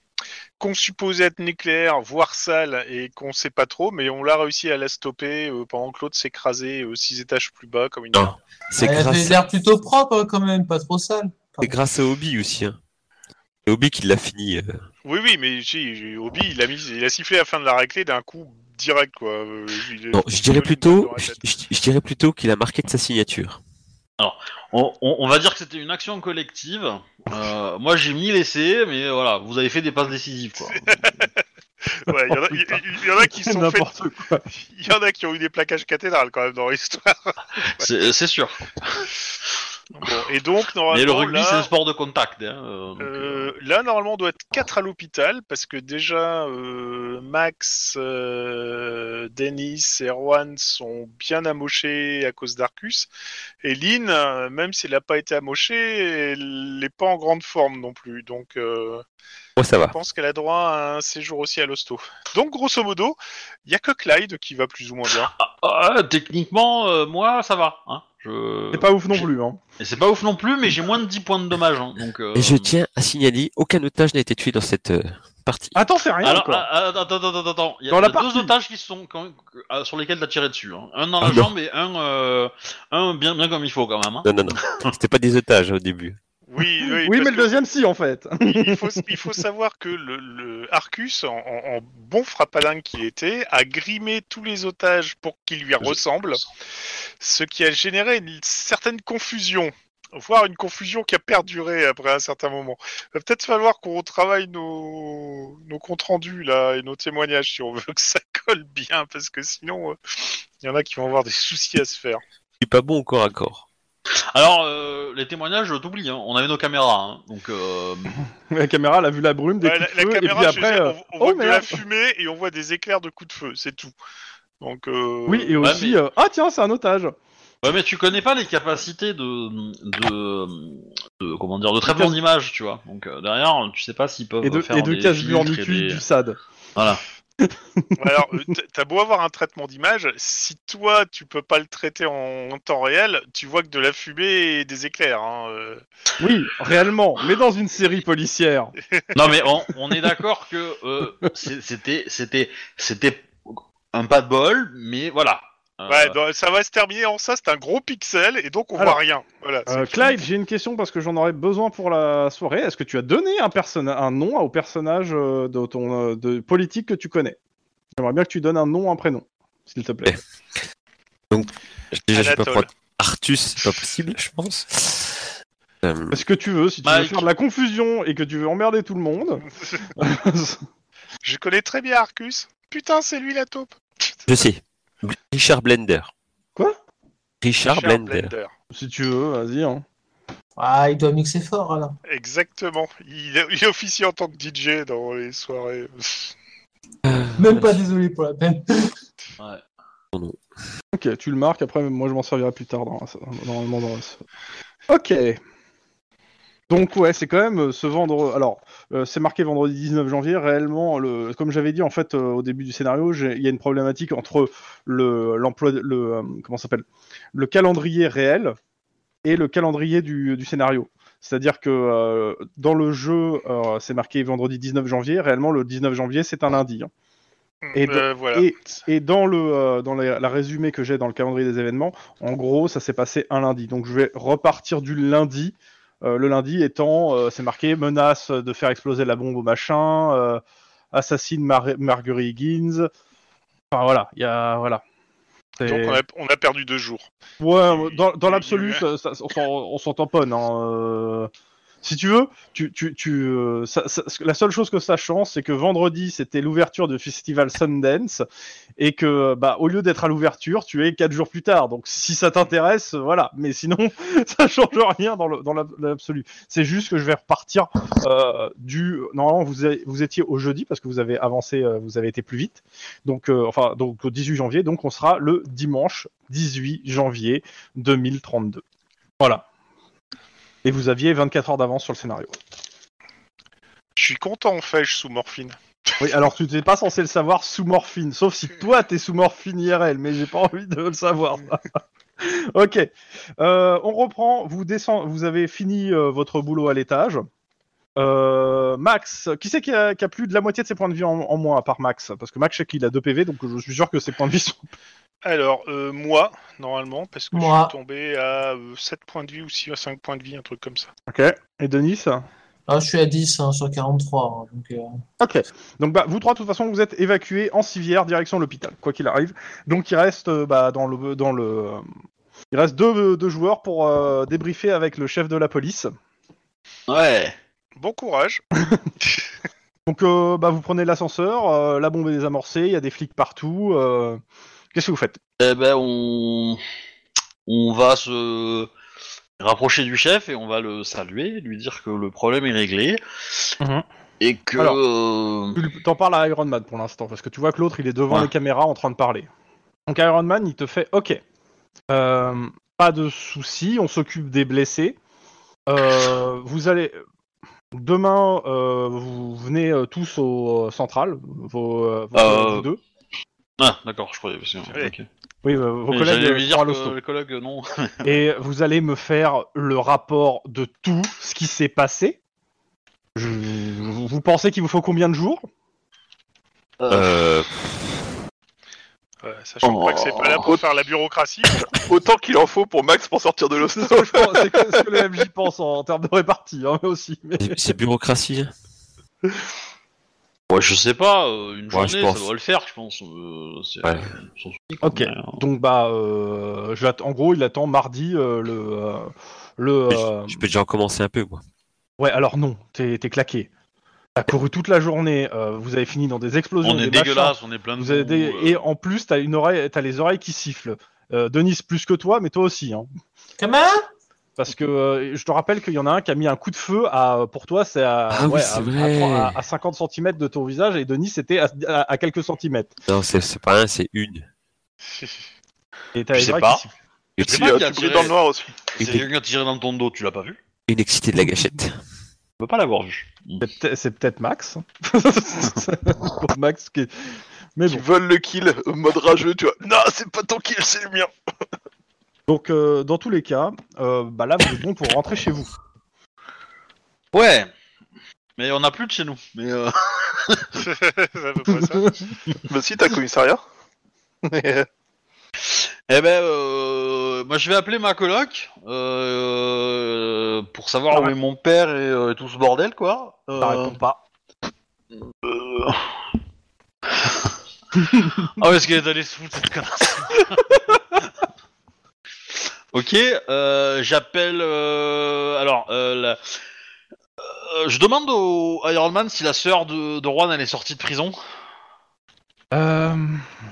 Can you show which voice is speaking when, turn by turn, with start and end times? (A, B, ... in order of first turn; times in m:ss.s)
0:00.6-0:08.4 A
0:08.1-0:09.5 B
0:08.8-0:11.8 C
0:11.6-0:12.8 B
0:13.7-0:14.8 B
0:15.0-0:21.5 A
0:20.1-0:23.6 B
0:24.2-0:31.2 D
0:30.7-0:31.4 A
0:31.9-0:33.9 A
0:32.3-0:34.4 E
0:34.5-0:37.9 A
0:37.8-0:39.1 D
0:40.0-0:41.7 A
0:40.9-0:43.5 D
0:43.0-0:53.1 A
0:53.6-0:59.0 A
0:59.6-1:00.0 B
0:59.9-1:05.3 A
1:05.3-1:09.3 D
1:08.7-1:09.6 E
1:09.8-1:12.8 D
1:12.4-1:15.8 B
1:15.8-1:16.7 E
1:16.2-1:24.9 D
1:17.9-1:18.5 E
1:21.2-1:21.5 B
1:24.2-1:26.2 B
1:26.5-1:27.7 A
1:27.0-1:29.2 E
1:28.4-1:36.4 A
1:35.8-1:36.4 D
1:37.2-1:52.2 A
1:52.6-1:53.6 B
1:54.3-1:58.2 D
1:58.5-2:01.8 E
1:59.6-2:03.9 A
2:04.6-2:05.8 A
2:05.3-2:07.2 E
2:05.6-2:06.0 D
2:07.6-2:16.0 D
2:11.9-2:12.2 E
2:14.4-2:16.4 E
2:16.8-2:17.0 D
2:17.4-2:17.9 E
2:18.0-2:25.8 A
2:26.2-2:28.7 E
2:29.2-2:36.2 D
2:35.9-2:40.2 A
2:39.7-2:47.4 E
2:48.0-2:50.2 E
2:51.3-2:55.3 B
2:52.1-2:52.7 A
2:55.8-2:56.2 B
2:56.1-3:00.6 E
2:56.8-2:57.3 D
3:01.2-3:03.7 A
3:04.3-3:06.1 B
3:07.4-3:08.3 B
3:07.6-3:08.5 A
3:08.7-3:09.8 E
3:10.6-3:12.0 C
3:12.1-3:16.3 A
3:17.0-3:17.8 B
3:17.4-3:18.9 C
3:20.1-3:20.4 B
3:20.9-3:24.2 E
3:24.9-3:25.4 E
3:26.7-3:38.6 E
3:39.2-3:46.9 E
3:47.6-3:48.8 A
3:47.8-4:02.9 E
4:03.7-4:04.8 E
4:05.6-4:06.0 E
4:05.6-4:07.1 A
4:07.4-4:11.3 E
4:07.7-4:08.9 A
4:11.8-4:18.2 E
4:18.8-4:38.6 E
4:39.2-4:39.4 E
4:40.6-4:42.4 E
4:44.0-4:45.9 A
4:46.0-4:57.3 E
4:58.0-5:04.7 E
5:05.2-5:10.9 A
5:07.3-5:07.7 C
5:11.1-5:12.2 E
5:12.7-5:15.0 C
5:15.2-5:21.8 E
5:22.5-5:25.9 E
5:26.9-5:27.4 D
5:27.8-5:28.4 A
5:29.9-5:34.2 E
5:34.7-5:35.2 E
5:35.4-5:36.6 D
5:37.5-5:38.7 D
5:39.4-5:43.6 D
5:43.6-5:43.9 E
5:44.2-5:45.6 D
5:45.6-5:49.3 E
5:49.9-5:51.2 E
5:51.9-5:55.0 E
5:55.7-5:57.0 E
5:57.7-6:02.8 E
6:02.1-6:02.7 D
6:03.6-6:05.1 D
6:05.4-6:07.0 E
6:05.9-6:08.2 D
6:08.0-6:12.2 E
6:13.2-6:15.5 E
6:16.8-6:17.2 D
6:16.9-6:17.6 B
6:19.2-6:21.6 A
6:19.6-6:20.6 D
6:21.8-6:25.0 F
6:23.7-6:27.6 E
6:27.4-6:28.5 B
6:30.5-6:35.4 D
6:31.7-6:32.3 B
6:33.8-6:34.1 B
6:34.8-6:40.4 E
6:39.9-6:41.4 B
6:42.0-6:43.5 E
6:44.2-6:52.9 E
6:46.6-6:48.6 D
6:53.4-6:53.8 C
6:54.4-7:02.7 E
6:58.1-6:59.4 B
7:02.9-7:04.3 B
7:04.9-7:05.2 A
7:05.9-7:06.7 E
7:06.1-7:06.7 D
7:07.2-7:07.5 B
7:07.2-7:08.2 D
7:07.2-7:08.6 F
7:08.7-7:10.4 D
7:08.8-7:09.1 B
7:10.7-7:11.8 B
7:12.4-7:13.4 D
7:13.4-7:17.8 E
7:17.7-7:21.1 F
7:22.3-7:25.5 E
7:27.1-7:27.5 D
7:28.4-7:30.6 D
7:30.6-7:32.0 A
7:31.6-7:32.1 E
7:32.4-7:33.4 F
7:34.2-7:34.7 F
7:35.5-7:43.8 D
7:43.4-7:44.0 E
7:45.1-7:46.0 D
7:46.9-7:47.3 D
7:47.9-7:48.4 E
7:48.2-7:51.1 D
7:52.7-7:56.4 D
7:57.2-8:01.2 D
8:02.5-8:03.3 E